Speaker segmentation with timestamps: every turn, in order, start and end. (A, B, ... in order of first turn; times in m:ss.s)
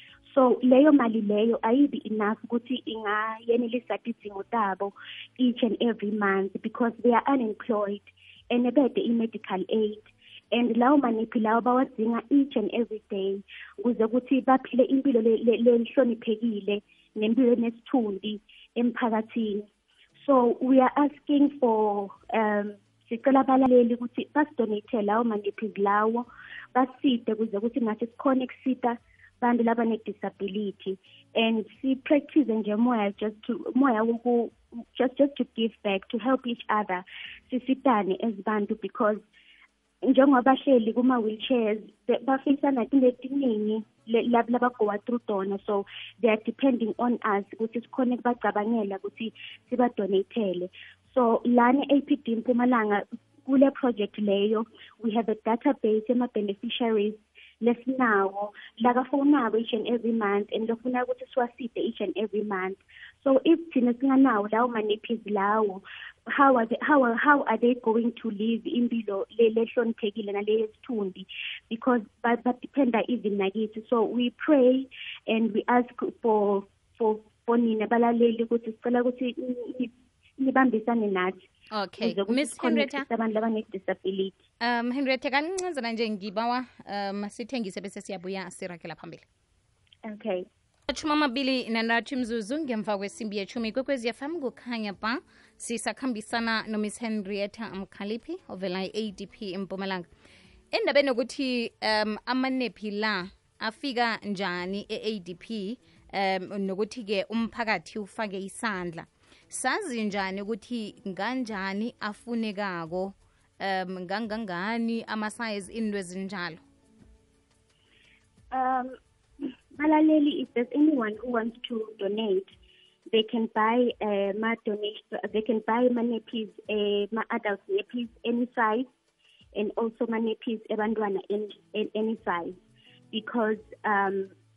0:00.3-0:19.7 A
0:20.2-0:39.2 A
0:40.0-1:21.4 A
1:21.7-1:23.1 B
1:22.0-1:24.4 A
1:24.6-1:29.2 B
1:30.1-1:30.4 A
1:30.9-1:40.1 B
1:40.7-1:56.6 B
1:58.5-2:02.5 A
2:03.1-2:08.9 A
2:09.5-2:14.3 A